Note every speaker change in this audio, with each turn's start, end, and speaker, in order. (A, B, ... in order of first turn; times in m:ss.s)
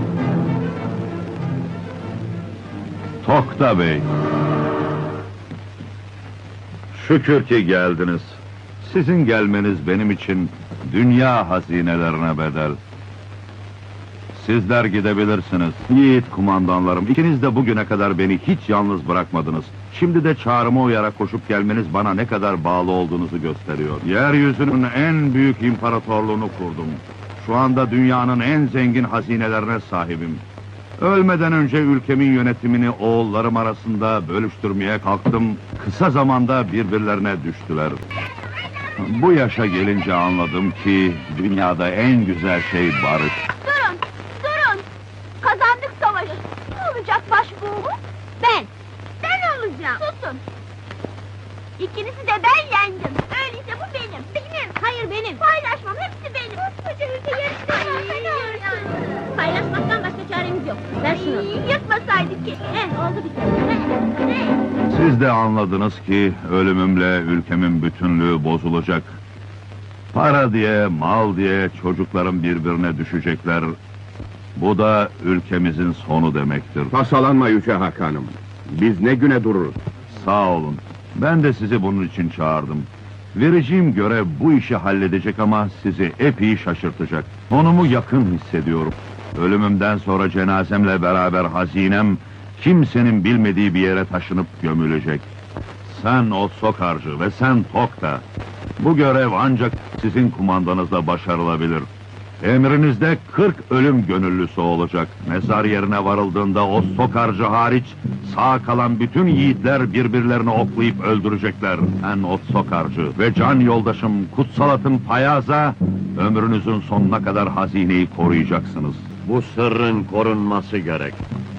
0:03.2-0:04.1 A
0:06.9-0:12.8 A
0:14.3-0:30.4 A
0:31.0-0:38.0 A
0:39.0-0:43.4 A
0:43.6-0:44.9 B
0:45.4-0:48.7 B
0:49.2-0:50.4 B
0:51.8-1:04.2 B
1:04.9-1:09.2 A
1:10.1-1:13.8 A
1:14.6-1:16.9 A
1:16.9-1:19.8 C
1:20.1-1:35.3 A
1:35.8-1:38.2 A
1:38.8-1:41.9 A
1:42.4-1:59.1 A
1:59.2-2:01.2 D